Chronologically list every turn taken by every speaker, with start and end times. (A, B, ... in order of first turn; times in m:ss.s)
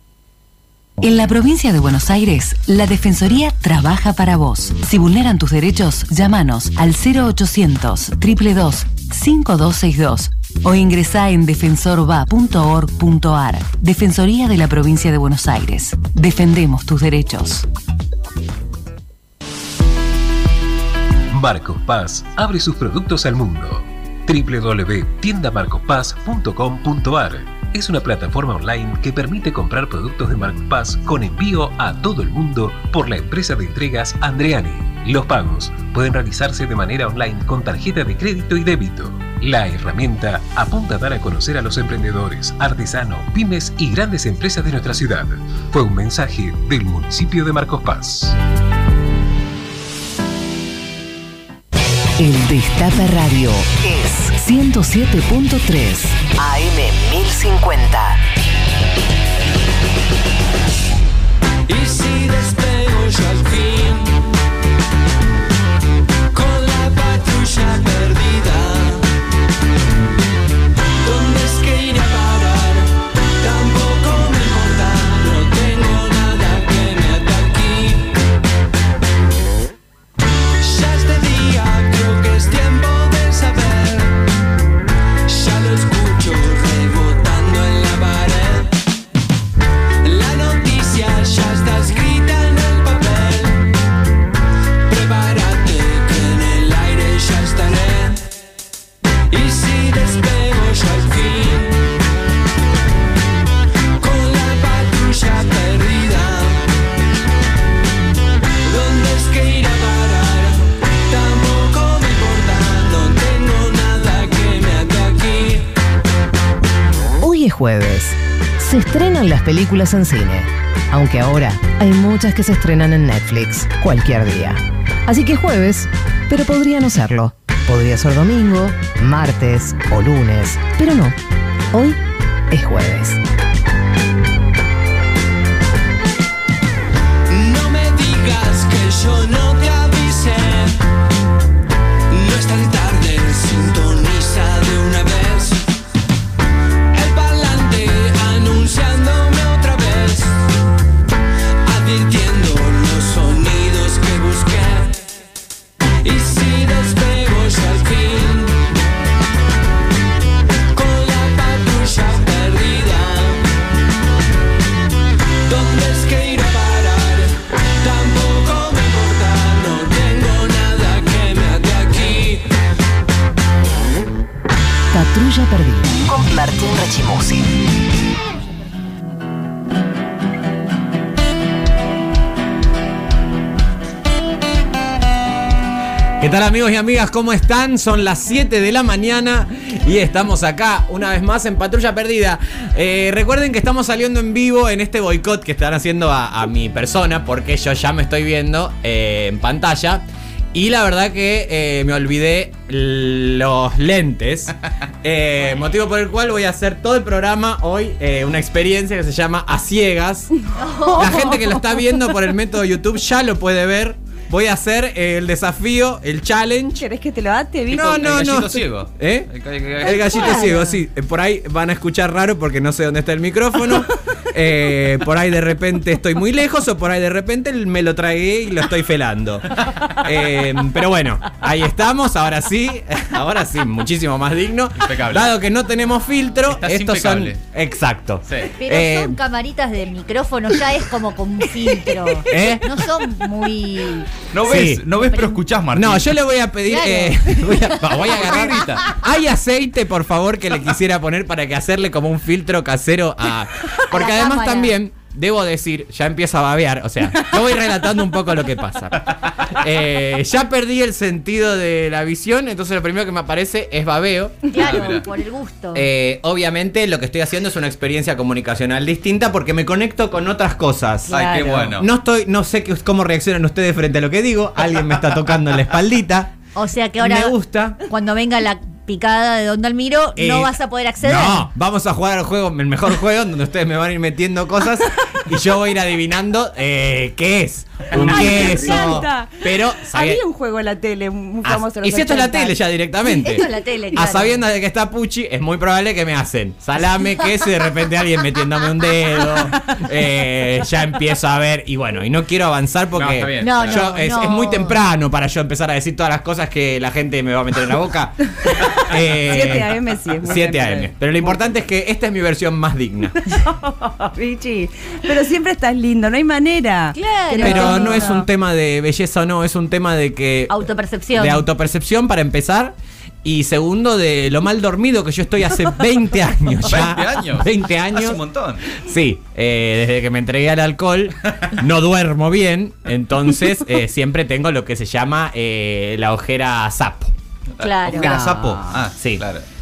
0:01.0-0:17.7 A
0:21.3-0:48.4 B
0:52.2-0:58.2 C
1:01.7-1:04.2 D
1:06.3-1:09.1 D
1:11.0-1:18.2 D
1:20.6-1:24.2 D
1:25.3-1:28.8 D
1:30.0-1:33.7 D
1:34.9-1:38.2 D
1:39.3-1:41.9 D
1:44.0-1:46.6 D
1:48.6-1:55.7 D
1:57.2-2:11.2 C
2:11.7-2:12.0 C
2:12.5-2:13.2 C
2:17.3-2:20.8 D
2:22.1-2:25.7 D
2:26.9-2:30.4 D
2:31.6-2:35.0 D
2:36.0-2:38.6 D
2:40.7-2:43.5 D
2:45.5-2:52.5 D
2:54.9-2:57.6 C
3:06.2-3:30.4 E
3:30.6-3:31.2 F
3:30.9-3:31.6 G
3:31.0-3:36.8 E
3:36.8-3:38.0 G
3:37.7-3:40.5 H
3:37.7-3:39.3 E
3:39.8-3:59.2 E
3:40.2-3:40.6 G
3:54.8-3:55.3 H
3:56.5-3:57.4 H
3:58.3-3:58.5 H
3:58.6-4:04.1 F
4:02.3-4:02.7 E
4:04.3-4:06.1 H
4:04.4-4:04.8 E
4:05.0-4:05.4 F
4:05.8-4:24.9 E
4:06.7-4:07.8 F
4:08.0-4:08.9 H
4:13.9-4:14.7 F
4:24.5-4:25.9 F
4:24.6-4:25.0 H
4:25.7-4:36.3 E
4:31.1-4:31.7 F
4:31.1-4:31.9 H
4:36.6-4:41.5 F
4:37.0-4:37.8 E
4:40.2-4:50.2 E
4:47.9-4:52.6 G
4:47.9-4:48.8 H
4:51.4-5:13.3 E
4:53.2-4:54.4 F
4:59.2-4:59.8 G
5:03.0-5:04.0 H
5:03.4-5:04.8 F
5:09.2-5:11.4 G
5:13.2-5:18.3 G
5:16.9-5:18.2 F
5:17.4-5:20.6 E
5:20.5-5:21.5 F
5:21.1-5:37.1 E
5:26.6-5:28.7 H
5:37.6-5:39.4 H
5:37.6-5:38.1 F
5:38.0-5:38.8 G
5:39.0-5:39.2 E